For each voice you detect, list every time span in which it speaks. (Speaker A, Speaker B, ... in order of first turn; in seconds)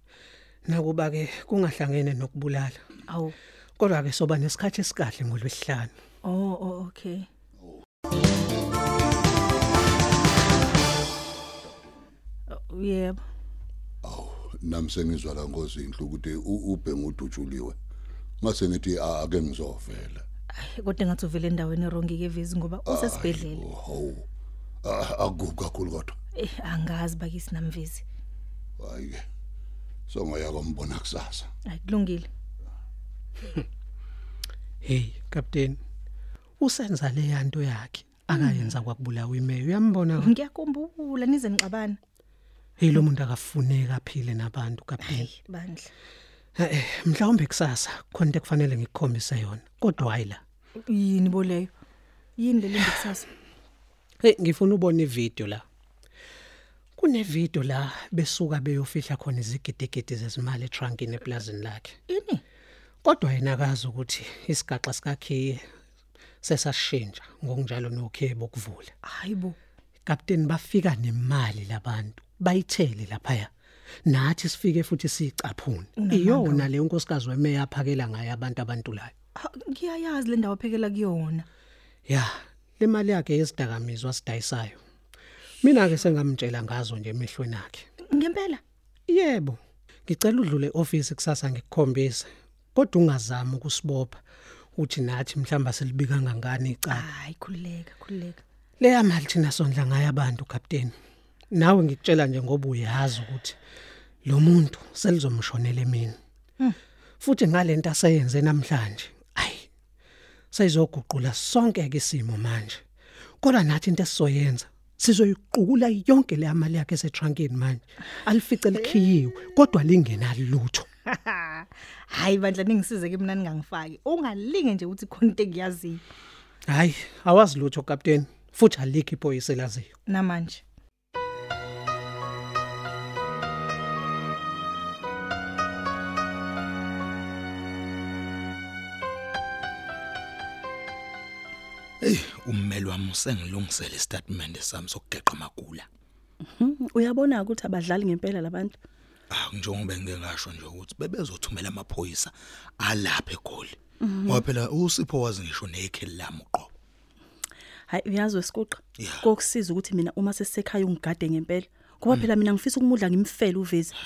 Speaker A: 0.7-2.8, 3.8-5.9, 34.8-35.8, 36.6-40.3, 42.8-45.3, 46.6-50.4, 54.2-55.6, 57.0-62.0, 63.0-65.6, 66.4-68.9, 70.1-73.5, 74.1-79.1, 82.1-84.8, 85.6-87.9, 89.1-94.2, 94.8-97.0, 98.8-100.9, 101.5-103.6, 104.3-106.2, 107.2-109.7, 110.5-112.8, 113.4-120.9, 126.7-129.9
Speaker B: 3.1-3.4, 6.2-7.3, 12.5-13.2, 20.6-23.6, 26.4-28.0, 31.7-32.3, 38.4-38.6, 40.2-42.0, 45.0-45.9, 50.9-51.7, 52.4-53.3, 62.1-62.4, 69.0-69.6, 76.0-76.7, 79.4-81.5, 88.1-88.6, 96.9-98.4, 121.1-126.0, 130.1-130.6
Speaker C: 14.0-17.8, 18.4-20.2, 22.9-24.3, 24.8-26.2, 28.8-29.2, 30.1-31.5
Speaker D: 142.0-145.9, 149.3-156.7, 159.0-159.3
Speaker E: 146.5-148.8, 154.1-154.4, 157.9-163.9